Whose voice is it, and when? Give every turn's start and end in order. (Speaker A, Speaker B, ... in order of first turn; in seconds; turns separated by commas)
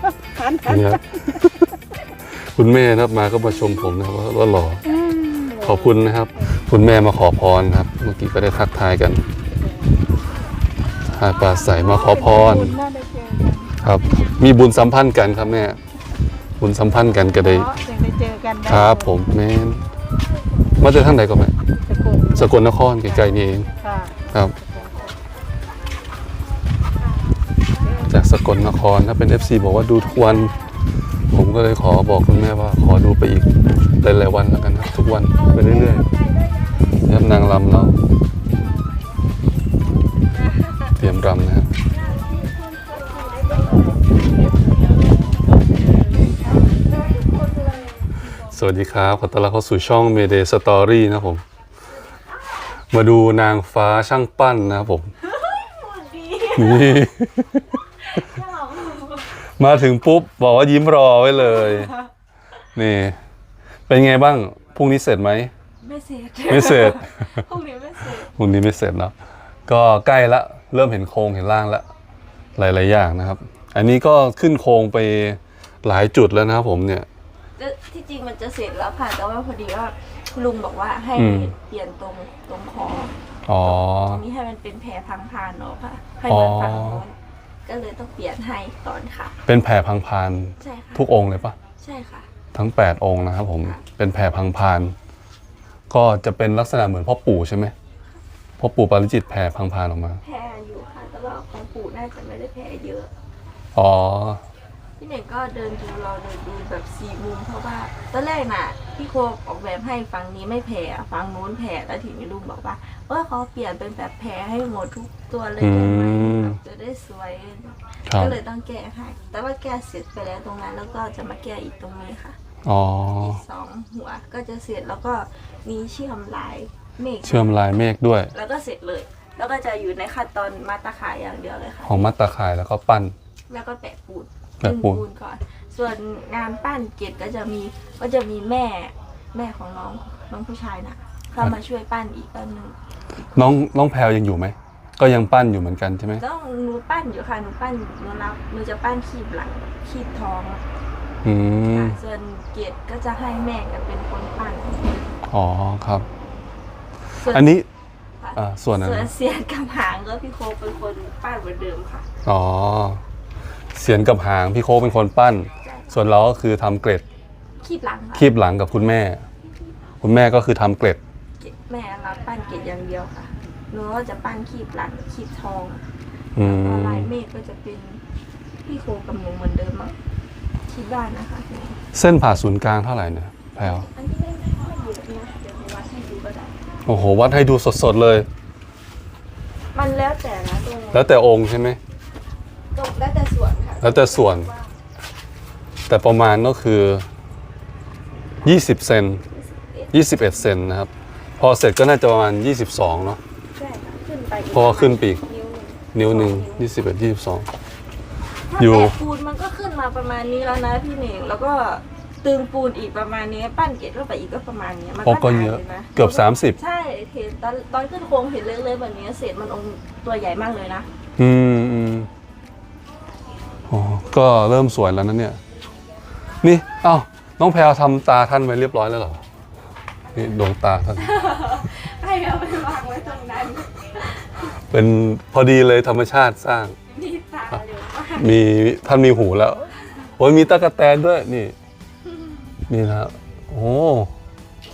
Speaker A: 0.4-0.8, Speaker B: 0.6-1.2, Speaker B: 2.3-4.8, Speaker A: 5.0-5.7, Speaker B: 5.6-9.2, Speaker B: 11.1-12.8, Speaker A: 11.8-13.7, Speaker B: 13.8-15.8, Speaker B: 16.6-17.7, Speaker A: 17.6-19.0, Speaker B: 18.6-19.8, Speaker B: 20.8-21.6, Speaker A: 21.9-22.4, Speaker B: 22.3-23.7, Speaker A: 23.8-24.1, Speaker B: 24.3-24.6, Speaker C: 24.8-25.1, Speaker C: 27.8-28.1, Speaker B: 28.1-30.5, Speaker C: 29.9-30.7, Speaker B: 31.3-36.1, Speaker C: 35.3-36.9, Speaker B: 37.0-38.0, Speaker B: 41.0-41.7, Speaker C: 41.9-48.1, Speaker B: 48.3-51.4, Speaker B: 52.9-55.1, Speaker C: 55.2-57.0, Speaker B: 56.5-57.7, Speaker C: 58.0-59.4, Speaker B: 59.5-62.0, Speaker B: 62.7-63.2, Speaker B: 63.9-65.5, Speaker C: 65.8-68.3, Speaker B: 66.5-67.2, Speaker B: 68.3-69.1, Speaker B: 69.7-71.9, Speaker B: 72.6-77.1, Speaker C: 77.6-89.4, Speaker B: 81.2-81.5, Speaker B: 83.5-84.2, Speaker B: 86.3-87.0, Speaker B: 89.5-91.5, Speaker C: 90.6-91.1, Speaker C: 91.8-92.3, Speaker B: 92.5-94.9, Speaker B: 95.9-97.7, Speaker B: 98.6-100.2, Speaker C: 100.2-103.1, Speaker B: 103.8-104.4, Speaker C: 105.0-122.4, Speaker B: 115.6-116.6, Speaker B: 118.1-118.4, Speaker B: 122.6-123.4, Speaker C: 123.2-127.5, Speaker B: 127.2-128.3, Speaker C: 128.3-132.1, Speaker B: 131.8-133.1, Speaker C: 133.5-142.8, Speaker B: 134.6-135.0, Speaker B: 143.3-146.2, Speaker C: 146.2-150.6, Speaker B: 151.2-152.0, Speaker C: 151.7-155.1, Speaker B: 155.3-156.1, Speaker C: 157.2-157.5, Speaker B: 157.2-157.7, Speaker C: 158.2-162.1, Speaker B: 158.3-159.1, Speaker B: 162.2-163.0, Speaker B: 163.7-167.1, Speaker C: 165.6-165.9, Speaker C: 167.6-168.3, Speaker B: 168.2-169.2, Speaker B: 170.0-171.0, Speaker C: 171.4-175.8, Speaker B: 176.4-177.1, Speaker C: 176.4-178.0, Speaker C: 178.6-179.9, Speaker C: 180.7-181.8, Speaker B: 181.9-183.9, Speaker C: 183.6-186.5, Speaker B: 186.9-188.3, Speaker C: 189.7-191.1, Speaker B: 190.9-191.8, Speaker C: 192.7-194.7, Speaker B: 193.8-194.5, Speaker B: 195.9-197.1, Speaker B: 198.4-199.2, Speaker C: 199.3-199.9, Speaker B: 199.9-203.2, Speaker C: 203.6-206.7, Speaker B: 204.5-205.2, Speaker B: 205.9-207.5, Speaker C: 208.5-220.9, Speaker B: 208.6-209.0, Speaker B: 215.1-216.6, Speaker B: 221.2-222.1, Speaker B: 223.7-225.4, Speaker B: 226.4-229.2, Speaker B: 230.1-231.1, Speaker C: 231.0-234.3, Speaker B: 234.7-236.8, Speaker C: 236.9-238.4, Speaker B: 238.2-239.6, Speaker B: 240.2-241.6, Speaker B: 242.7-244.1